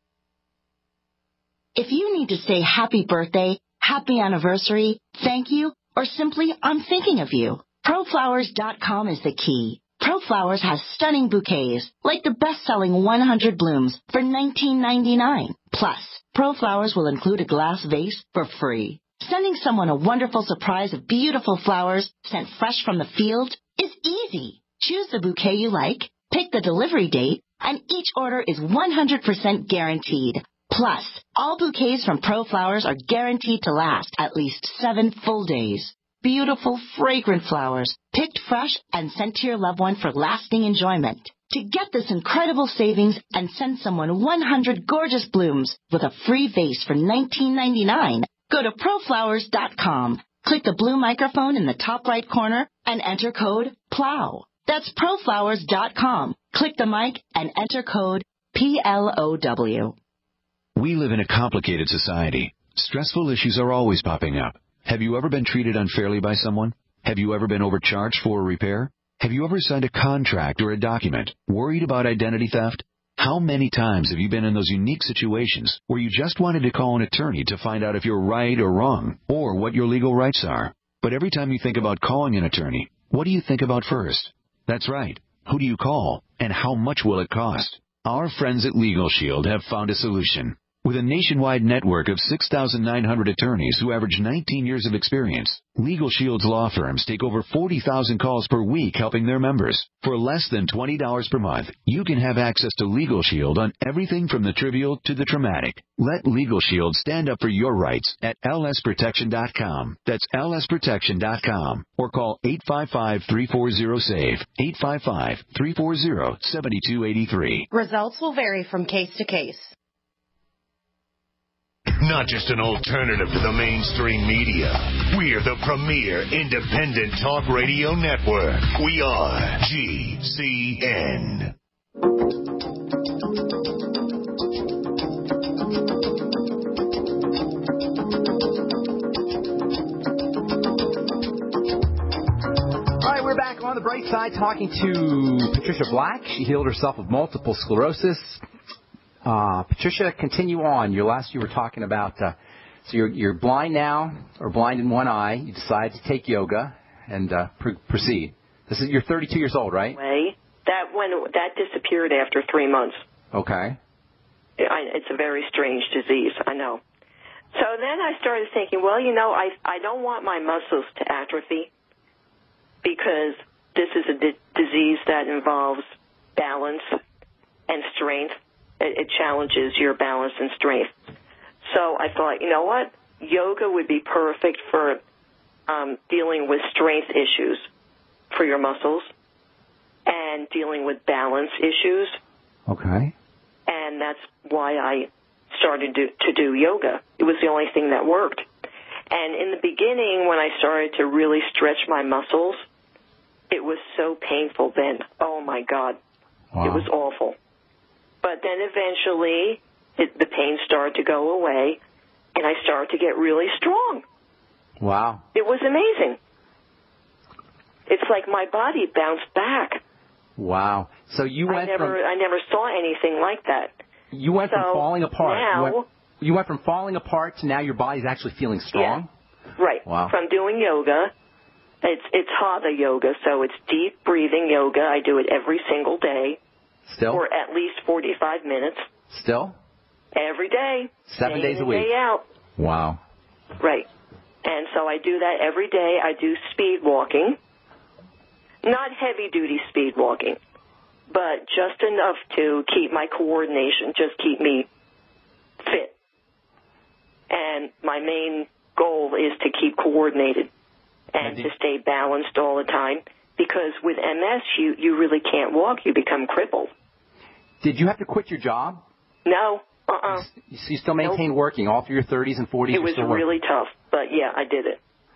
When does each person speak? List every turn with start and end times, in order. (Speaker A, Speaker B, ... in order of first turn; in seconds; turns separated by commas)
Speaker A: 1.8-59.9, Speaker B: 60.8-117.7, Speaker C: 117.7-119.7, Speaker D: 122.0-131.5, Speaker E: 142.9-148.4, Speaker E: 149.2-160.0, Speaker F: 160.0-163.0, Speaker E: 163.3-163.8, Speaker F: 164.6-166.8, Speaker F: 167.5-171.7, Speaker F: 172.8-175.8, Speaker F: 176.4-176.9, Speaker F: 177.7-180.9, Speaker F: 181.7-185.0, Speaker F: 185.7-187.7, Speaker F: 188.3-189.1, Speaker F: 190.1-192.2, Speaker E: 192.7-193.1, Speaker F: 193.7-198.4, Speaker F: 199.1-202.6, Speaker F: 203.5-206.0, Speaker E: 206.5-206.9, Speaker F: 206.6-207.3, Speaker F: 208.2-211.8, Speaker F: 212.3-214.0, Speaker E: 214.8-215.2, Speaker F: 215.3-216.2, Speaker F: 217.9-219.8, Speaker E: 220.4-222.0, Speaker F: 221.5-223.7, Speaker E: 224.1-229.1, Speaker F: 224.5-225.8, Speaker F: 228.7-229.0, Speaker F: 229.6-231.1, Speaker E: 229.8-230.1, Speaker F: 231.8-236.4, Speaker E: 236.9-237.2, Speaker F: 237.1-238.8, Speaker E: 239.1-239.6, Speaker F: 240.1-242.2, Speaker E: 241.1-241.9, Speaker E: 242.6-243.0, Speaker F: 243.6-243.9, Speaker F: 244.4-247.4, Speaker F: 248.6-250.4, Speaker F: 251.1-254.7, Speaker F: 255.6-255.9, Speaker F: 257.3-260.5, Speaker F: 261.1-266.7, Speaker E: 261.2-261.5, Speaker E: 267.6-268.8, Speaker F: 269.2-270.3, Speaker E: 270.1-273.3, Speaker F: 272.7-274.8